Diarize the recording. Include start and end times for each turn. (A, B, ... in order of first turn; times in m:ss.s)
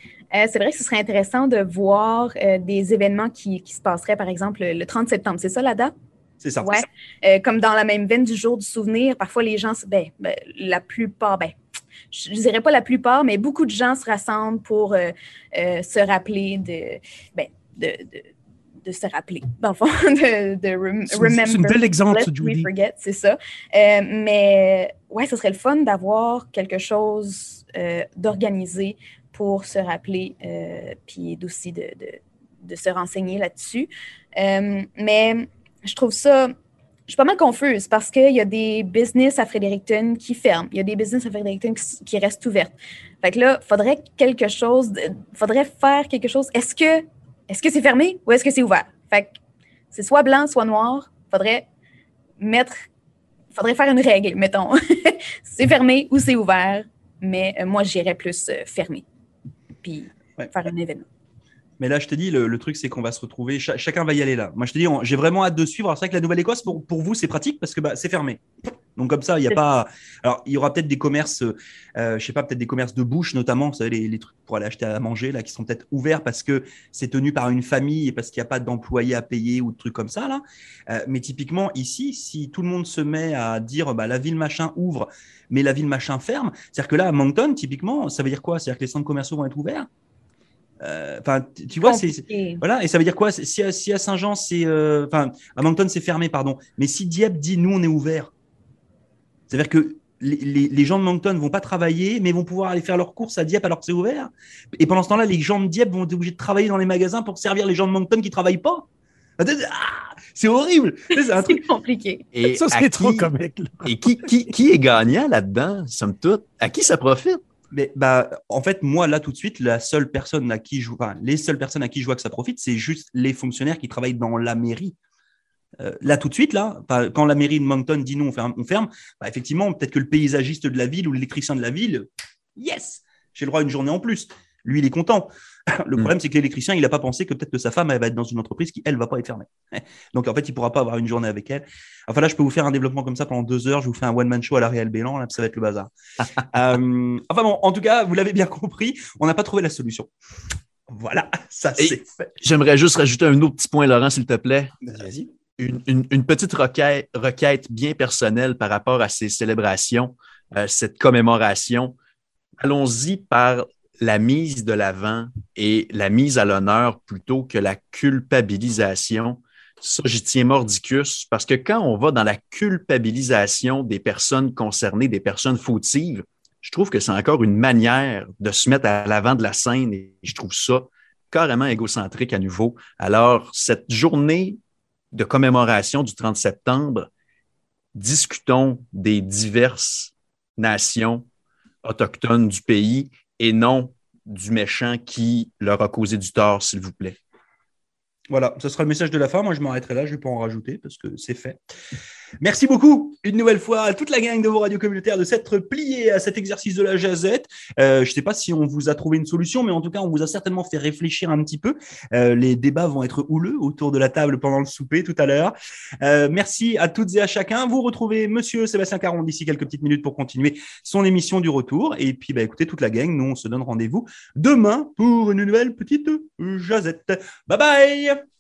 0:00.3-0:05.9 A
0:06.4-0:06.8 B
0:06.6-0:11.6 A
0:12.1-0:18.3 A
0:18.8-0:36.5 A
0:21.1-0:22.7 C
0:37.1-0:49.4 A
0:49.9-0:51.7 A
0:52.4-0:52.8 A
0:53.5-0:59.0 A
0:59.8-1:01.0 A
1:01.8-1:29.9 B
1:30.8-1:38.3 B
1:31.8-1:32.6 A
1:39.5-1:48.8 B
1:49.4-1:51.6 B
1:51.4-1:52.2 A
1:52.3-1:53.3 D
1:52.5-1:54.2 C
1:53.8-1:57.4 D
1:57.7-2:05.0 B
2:05.8-2:25.9 B
2:26.5-2:30.1 B
2:30.9-2:32.3 B
2:31.8-2:34.8 D
2:34.8-2:35.3 B
2:35.6-2:42.0 D
2:42.6-3:04.6 D
3:05.1-3:07.1 D
3:08.0-3:11.3 D
3:11.8-3:17.2 D
3:18.3-3:21.6 B
3:22.4-3:48.2 B